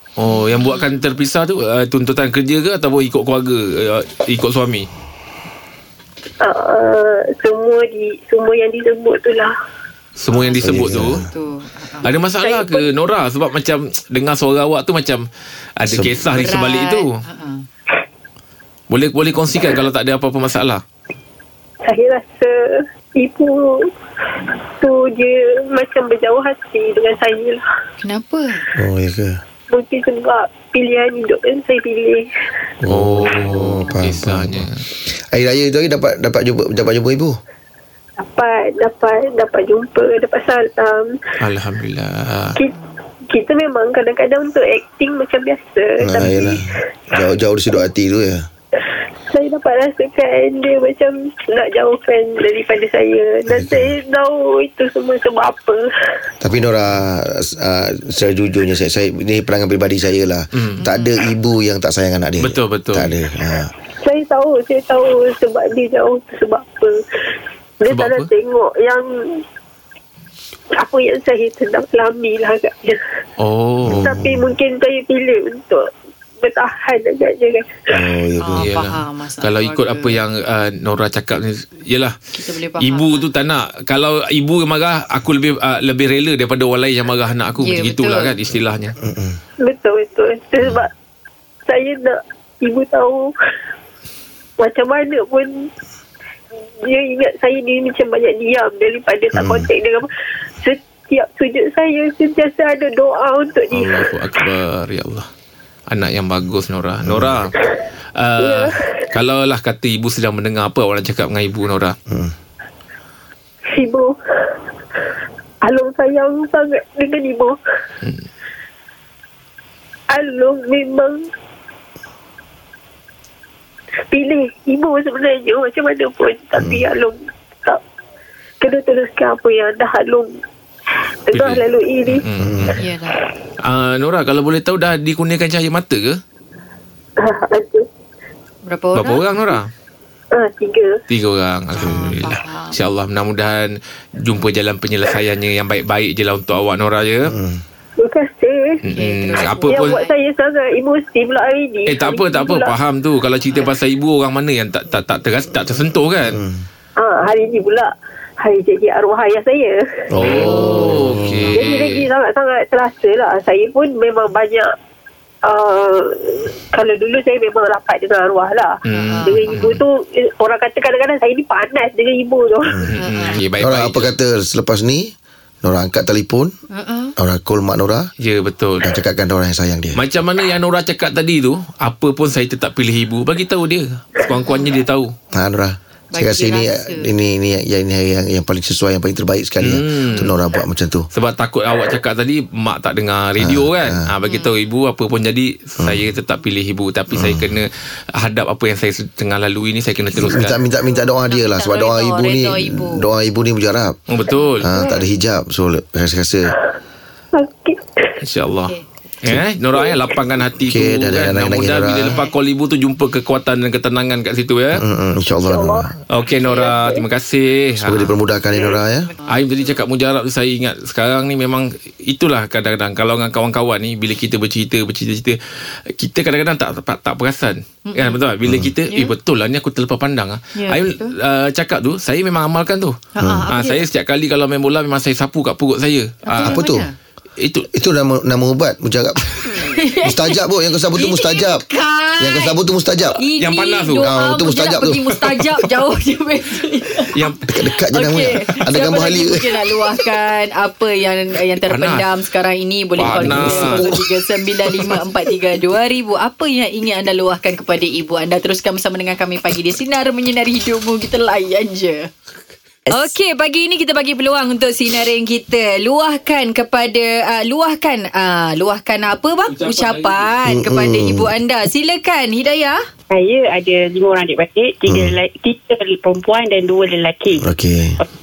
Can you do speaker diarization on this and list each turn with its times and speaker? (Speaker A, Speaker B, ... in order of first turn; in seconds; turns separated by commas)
Speaker A: 0.2-4.9, Speaker B: 0.5-0.8, Speaker C: 6.4-9.5, Speaker A: 10.2-11.2, Speaker B: 10.3-12.1, Speaker D: 10.6-11.3, Speaker A: 12.0-15.2, Speaker C: 12.4-12.9, Speaker A: 15.8-17.2, Speaker D: 15.9-16.2, Speaker B: 16.2-17.6, Speaker A: 18.9-20.8, Speaker C: 21.8-27.6, Speaker B: 28.0-28.7, Speaker D: 28.7-29.4, Speaker C: 29.7-32.3, Speaker D: 32.8-37.4, Speaker A: 32.9-34.8, Speaker B: 33.5-33.9, Speaker C: 38.2-41.2, Speaker A: 41.4-42.6, Speaker C: 43.3-46.8, Speaker D: 46.0-48.5, Speaker C: 49.3-55.9, Speaker D: 53.5-53.9, Speaker D: 56.4-63.7, Speaker A: 60.5-60.8, Speaker B: 60.8-61.1, Speaker A: 62.4-63.1, Speaker C: 64.0-67.0, Speaker C: 67.8-69.4, Speaker A: 67.9-68.3, Speaker C: 70.8-73.0, Speaker A: 73.4-74.2, Speaker D: 73.8-74.5, Speaker C: 73.9-75.9, Speaker C: 76.4-77.8, Speaker D: 77.9-78.7, Speaker B: 78.4-80.2, Speaker A: 78.6-82.2, Speaker B: 82.3-83.2, Speaker A: 82.8-89.0, Speaker B: 87.6-88.3, Speaker D: 89.0-89.4, Speaker C: 89.6-90.9, Speaker C: 91.7-93.3, Speaker C: 94.6-95.7, Speaker C: 96.8-104.1, Speaker D: 99.3-99.7, Speaker A: 103.7-105.3, Speaker A: 105.9-107.5, Speaker D: 107.0-107.5, Speaker A: 108.2-112.0, Speaker C: 108.4-108.9, Speaker C: 113.7-114.5, Speaker C: 115.6-117.6, Speaker C: 120.1-121.3, Speaker C: 124.1-127.8, Speaker D: 126.6-126.8, Speaker C: 128.6-130.4, Speaker C: 131.3-132.2, Speaker A: 131.3-132.8, Speaker D: 132.4-132.8, Speaker B: 132.7-133.2, Speaker A: 133.6-136.2, Speaker C: 137.2-137.9, Speaker B: 138.7-139.2, Speaker A: 138.9-139.7, Speaker C: 140.3-141.0, Speaker A: 141.1-147.3, Speaker B: 141.8-142.8, Speaker D: 141.8-142.2, Speaker D: 147.3-147.6, Speaker C: 148.0-148.8, Speaker A: 148.8-150.0, Speaker B: 148.9-150.1, Speaker C: 149.4-152.7, Speaker A: 151.8-156.4, Speaker D: 156.3-156.6, Speaker C: 157.0-160.4, Speaker D: 160.1-161.5, Speaker A: 160.2-162.1, Speaker B: 160.4-161.6, Speaker C: 161.5-164.7, Speaker C: 165.4-172.8, Speaker A: 168.8-169.8, Speaker B: 168.9-169.7, Speaker D: 172.7-172.9, Speaker A: 172.9-174.1, Speaker B: 173.0-173.4, Speaker D: 173.6-175.1, Speaker D: 175.6-176.5, Speaker B: 176.7-177.1, Speaker D: 177.2-178.1, Speaker A: 178.2-178.9, Speaker D: 178.8-180.0, Speaker A: 179.9-185.1, Speaker B: 184.2-184.7, Speaker D: 185.3-191.1, Speaker B: 186.1-187.1, Speaker A: 189.6-190.3, Speaker A: 191.1-200.6, Speaker D: 193.4-194.1, Speaker B: 194.2-194.5, Speaker D: 197.1-197.6, Speaker D: 200.1-204.0, Speaker B: 201.3-203.1, Speaker A: 204.1-204.7, Speaker D: 204.6-206.5, Speaker C: 207.3-208.2, Speaker A: 208.2-214.8, Speaker D: 210.6-212.2, Speaker B: 212.1-212.3, Speaker D: 214.7-215.9, Speaker C: 215.4-215.9, Speaker A: 216.1-218.1, Speaker C: 216.4-217.0, Speaker D: 217.8-219.1, Speaker A: 219.3-225.4, Speaker A: 225.9-233.0, Speaker B: 227.8-228.2, Speaker D: 228.4-228.7, Speaker B: 228.9-229.1, Speaker B: 230.5-231.1, Speaker B: 233.1-233.8, Speaker D: 233.2-233.5, Speaker A: 233.5-236.6, Speaker B: 236.2-236.9, Speaker D: 236.4-236.8, Speaker A: 237.4-237.7, Speaker D: 237.7-241.6, Speaker B: 239.4-240.4, Speaker B: 240.9-242.6, Speaker D: 242.2-243.2, Speaker B: 243.2-247.4, Speaker A: 243.4-244.1, Speaker D: 244.0-245.5, Speaker A: 247.1-247.4, Speaker D: 247.5-249.7, Speaker B: 247.9-262.1, Speaker A: 251.6-252.1, Speaker A: 253.0-253.8, Speaker D: 253.0-254.1, Speaker B: 262.9-272.8, Speaker A: 269.5-270.3, Speaker D: 270.5-271.3, Speaker E: 273.1-277.4, Speaker D: 274.9-275.2, Speaker D: 277.4-278.0